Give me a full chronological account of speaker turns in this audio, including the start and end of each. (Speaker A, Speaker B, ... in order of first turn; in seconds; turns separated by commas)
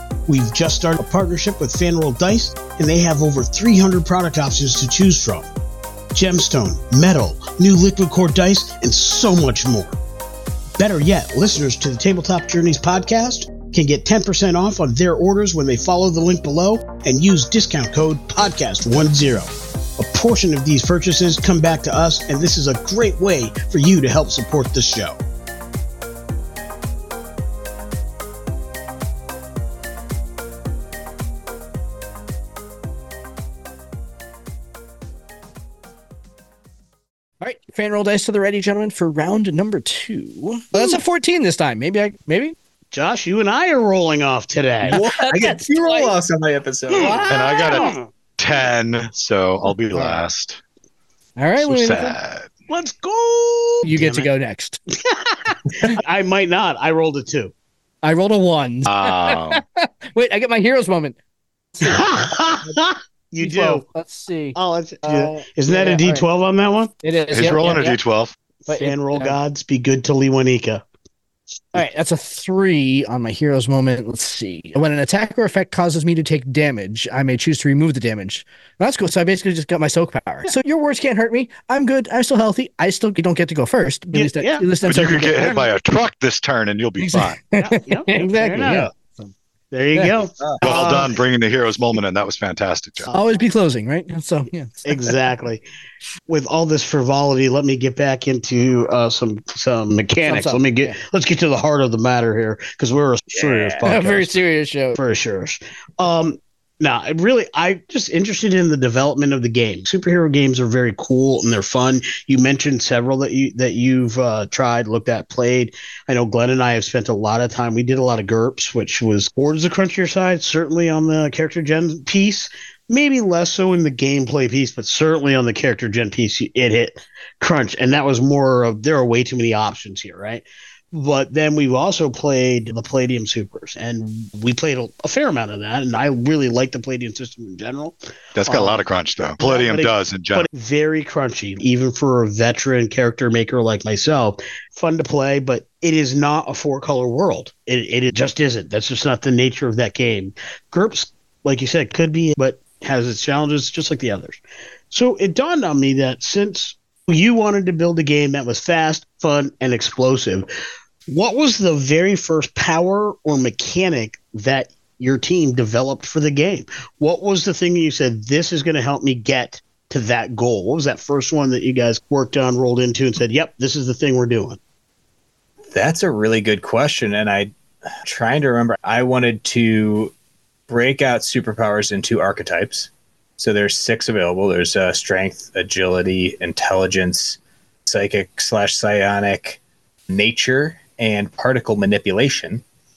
Speaker A: 0.3-5.5, Speaker A: 6.1-10.0, Speaker A: 10.8-25.2, Speaker B: 37.4-42.5, Speaker A: 42.9-45.0, Speaker B: 44.8-46.1, Speaker C: 44.9-47.4, Speaker A: 46.9-48.0, Speaker B: 47.0-47.9, Speaker D: 47.3-50.6, Speaker B: 49.9-50.2, Speaker B: 51.4-52.2, Speaker D: 51.6-52.5, Speaker A: 52.7-54.3, Speaker B: 53.8-54.8, Speaker A: 55.0-57.5, Speaker B: 58.0-61.1, Speaker D: 58.9-59.6, Speaker B: 61.7-62.8, Speaker A: 61.8-63.8, Speaker B: 63.4-66.3, Speaker A: 64.5-66.9, Speaker B: 67.0-68.0, Speaker D: 67.3-68.3, Speaker B: 68.7-69.4, Speaker A: 68.7-70.8, Speaker B: 71.7-85.6, Speaker A: 84.1-85.6, Speaker D: 84.8-87.4, Speaker B: 87.0-89.3, Speaker A: 87.6-88.9, Speaker A: 89.7-91.2, Speaker D: 90.6-93.1, Speaker B: 93.1-95.1, Speaker A: 94.8-95.6, Speaker A: 96.3-104.3, Speaker B: 100.2-101.0, Speaker C: 103.3-103.8, Speaker B: 103.8-105.0, Speaker A: 104.9-138.8, Speaker D: 138.3-140.5, Speaker A: 139.4-154.4, Speaker A: 154.9-160.5, Speaker A: 161.1-174.6, Speaker C: 175.7-177.5, Speaker C: 178.0-180.1, Speaker C: 180.7-192.6